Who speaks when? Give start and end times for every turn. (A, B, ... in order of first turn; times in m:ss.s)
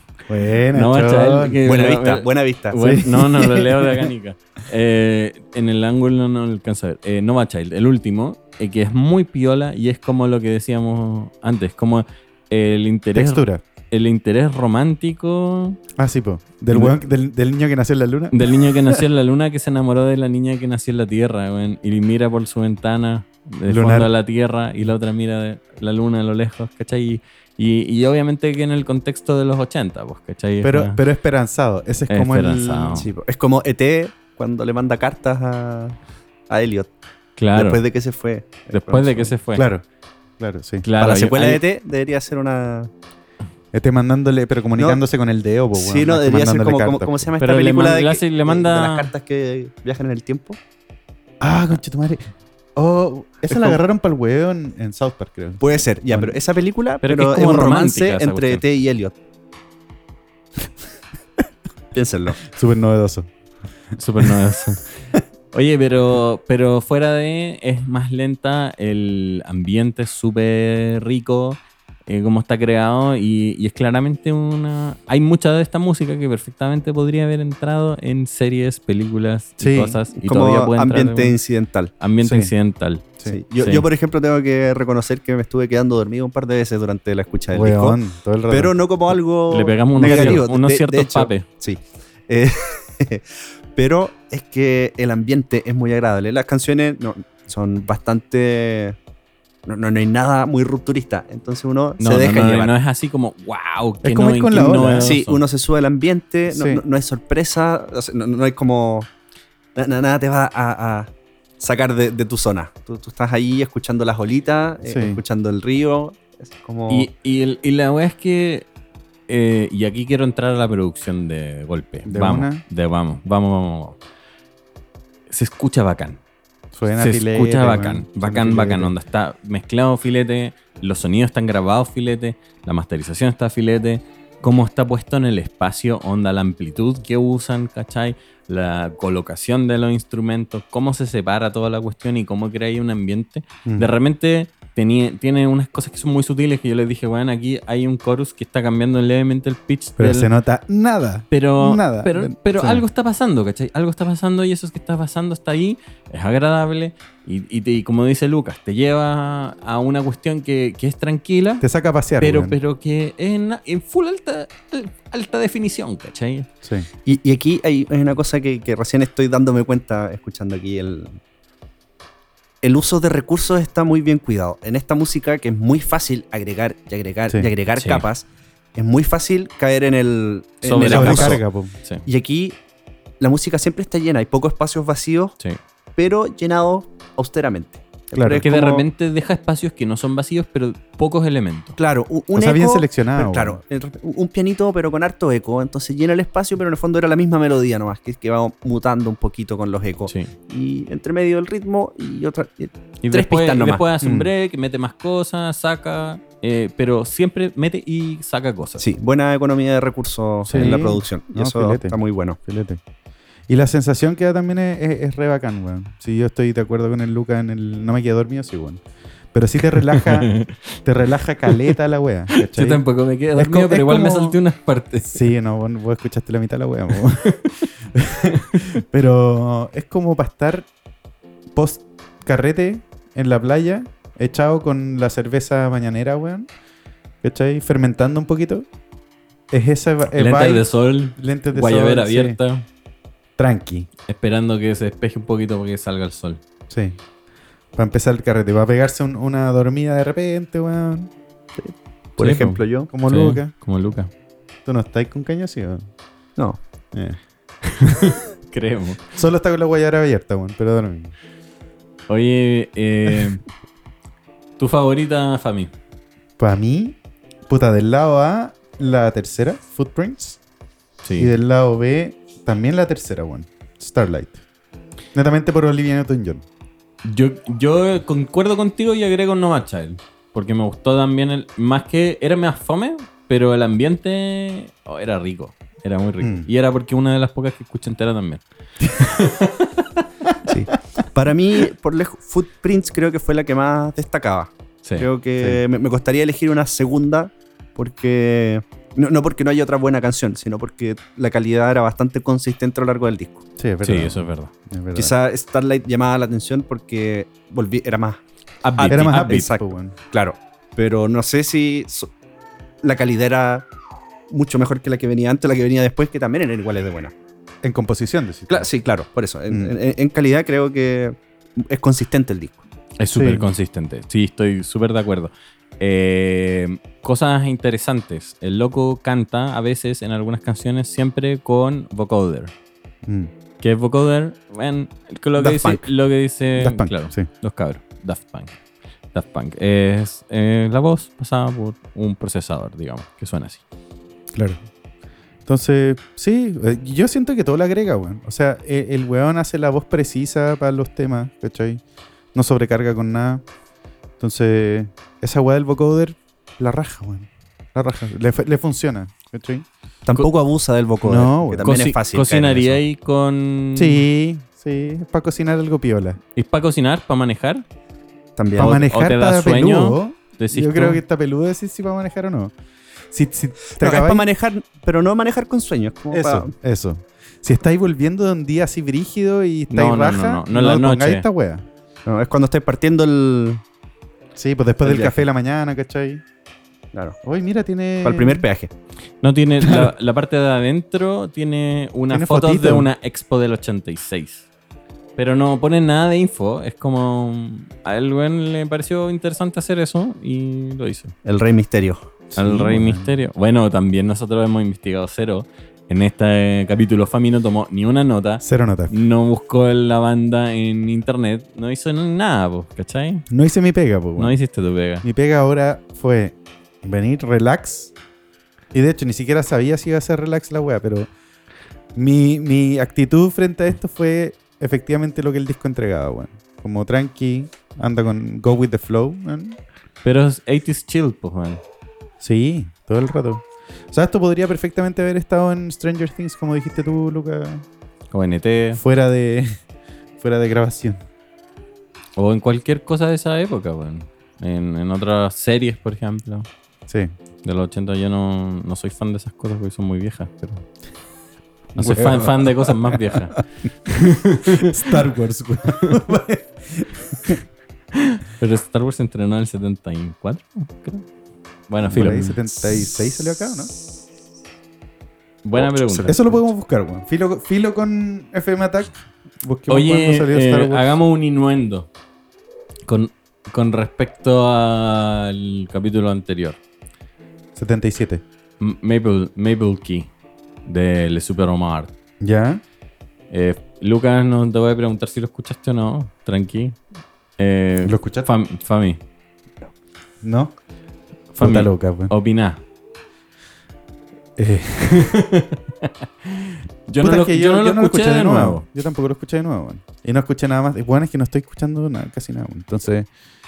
0:00.3-0:01.6 A
0:00.7-0:15.8 B
0:01.6-0:02.8 C
0:02.8-0:04.1 A
0:13.1-0:13.6 A
0:16.0-0:19.0 A
0:16.7-0:17.0 B
0:18.3-0:31.0 B
0:23.7-0:24.1 A
0:30.6-0:33.0 A
0:32.1-0:33.1 B
0:33.0-0:36.0 C
0:36.5-0:36.9 C
0:37.4-0:37.8 B
0:37.5-0:39.3 C
0:38.7-0:39.7 B
0:39.5-0:39.8 A
0:40.4-0:40.8 A
0:40.8-0:41.6 B
0:41.0-0:42.9 C
0:43.7-0:47.3 A
0:45.7-0:50.6 C
0:47.4-0:49.1 B
0:51.4-0:52.2 A
0:52.8-0:56.4 A
0:53.5-0:53.8 C
0:55.6-0:59.1 C
0:57.0-0:58.6 B
1:01.9-1:02.4 C
1:02.4-1:03.3 A
1:04.0-1:04.9 B
1:05.5-1:21.4 B
1:19.6-1:20.0 A
1:20.2-1:21.9 C
1:22.0-1:23.8 B
1:22.2-1:22.5 A
1:23.2-1:28.0 C
1:27.5-1:28.8 A
1:28.5-1:39.0 C
1:29.5-1:31.4 B
1:30.0-1:30.4 A
1:39.6-1:42.7 C
1:42.0-1:45.4 B
1:44.0-1:45.1 A
1:45.0-1:49.1 C
1:46.5-1:46.8 A
1:49.7-1:57.1 C
1:54.8-1:55.2 A
1:56.9-1:58.7 B
1:59.3-2:04.0 B
2:02.0-2:02.6 A
2:05.3-2:06.2 B
2:06.7-2:08.9 A
2:06.9-2:30.3 B
2:23.6-2:23.9 A
2:30.0-2:32.8 A
2:31.3-2:41.6 B
2:41.6-2:42.6 A
2:42.2-2:46.5 B
2:46.6-2:46.9 A
2:47.0-2:51.2 C
2:52.6-3:01.4 C
2:57.7-2:58.0 B
3:00.6-3:02.0 B
3:00.8-3:01.7 A
3:02.0-3:02.6 C
3:03.2-3:05.4 C
3:06.0-3:08.8 C
3:08.1-3:08.4 A
3:08.4-3:11.8 B
3:11.8-3:23.8 C
3:12.3-3:13.6 A
3:23.0-3:28.8 B
3:24.0-3:24.3 A
3:28.8-3:32.4 C
3:30.4-3:32.8 A
3:30.5-3:30.8 B
3:33.5-3:38.8 A
3:39.3-3:42.8 A
3:39.7-3:40.8 B
3:42.3-3:45.2 B
3:43.4-3:44.4 A
3:45.0-3:50.7 A
3:51.5-3:56.5 A
3:57.2-3:58.7 A
3:59.5-4:02.4 A
4:00.1-4:02.6 B
4:03.4-4:03.9 A
4:04.1-4:06.4 B
4:06.7-4:07.0 A
4:07.7-4:11.1 A
4:11.6-4:12.9 C
4:12.2-4:14.1 B
4:12.9-4:13.5 A
4:14.6-4:15.8 A
4:16.9-4:17.2 A
4:17.7-4:19.0 B
4:19.1-4:21.1 A
4:22.1-4:23.4 B
4:24.6-4:25.7 B
4:26.4-4:30.4 A
4:31.0-4:31.3 B
4:31.2-4:34.4 A
4:35.1-4:36.4 A
4:37.0-4:48.4 B
4:46.2-4:46.5 A
4:48.8-4:49.1 A
4:49.0-4:50.0 B
4:50.4-5:03.4 C
5:03.6-5:05.1 A
5:03.8-5:04.5 B
5:04.9-5:08.2 C
5:08.6-5:09.5 B
5:08.7-5:12.1 C
5:08.9-5:09.9 A
5:12.8-5:13.7 C
5:14.3-5:17.1 C
5:17.6-5:18.7 A
5:18.5-5:22.6 C
5:19.5-5:19.7 A
5:23.0-5:32.5 B
5:23.1-5:23.5 A
5:33.0-5:33.3 A
5:33.6-5:38.5 B
5:35.4-5:35.9 C
5:36.6-5:37.3 A
5:39.1-5:43.6 B
5:44.3-5:44.6 A
5:45.5-5:51.8 A
5:52.3-5:53.4 A
5:54.2-5:59.6 A
6:00.0-6:02.8 C
6:01.0-6:01.7 A
6:01.6-6:04.0 B
6:03.8-6:06.2 A
6:06.3-6:07.6 B
6:08.4-6:08.8 C
6:08.6-6:12.5 A
6:08.6-6:11.0 B
6:13.1-6:14.2 A
6:13.8-6:16.5 C
6:16.1-6:21.6 A
6:19.7-6:21.2 B
6:22.0-6:23.6 C
6:24.4-6:26.2 A
6:24.8-6:25.2 C
6:26.9-6:27.2 C
6:27.2-6:28.4 A
6:28.0-6:28.7 C
6:29.2-6:34.5 B
6:29.6-6:29.9 A
6:32.1-6:32.9 A
6:35.2-6:41.1 B
6:41.2-6:42.0 C
6:42.3-6:43.1 A
6:42.4-6:53.2 B
6:48.4-6:48.9 A
6:53.3-6:54.4 A
6:54.2-6:55.0 B
6:55.0-6:57.9 A
6:58.7-7:01.1 A
7:01.9-7:09.6 A
7:10.0-7:11.6 B
7:12.2-7:17.6 A
7:18.1-7:18.8 B
7:18.8-7:19.6 A
7:20.2-7:21.0 A
7:22.2-7:26.5 B
7:26.9-7:27.1 A
7:27.4-7:30.6 B
7:31.7-7:33.4 A
7:31.8-7:33.4 B
7:33.9-7:34.7 B
7:34.4-7:37.4 A
7:37.9-7:41.0 B
7:41.7-7:42.4 B
7:41.9-7:43.7 A
7:42.2-7:43.0 C
7:45.4-7:46.2 B
7:45.6-7:46.1 C
7:46.0-7:50.9 A
7:49.7-7:51.9 B
7:52.9-7:56.6 B
7:57.6-7:58.2 A
7:58.6-8:00.1 B
8:00.6-8:01.9 B
8:02.2-8:02.6 A
8:03.3-8:06.8 B
8:07.4-8:09.0 B
8:07.8-8:08.3 A
8:10.2-8:10.5 A
8:11.3-8:12.6 B
8:11.4-8:12.1 A
8:14.4-8:15.1 A
8:14.8-8:18.6 B
8:17.0-8:23.1 A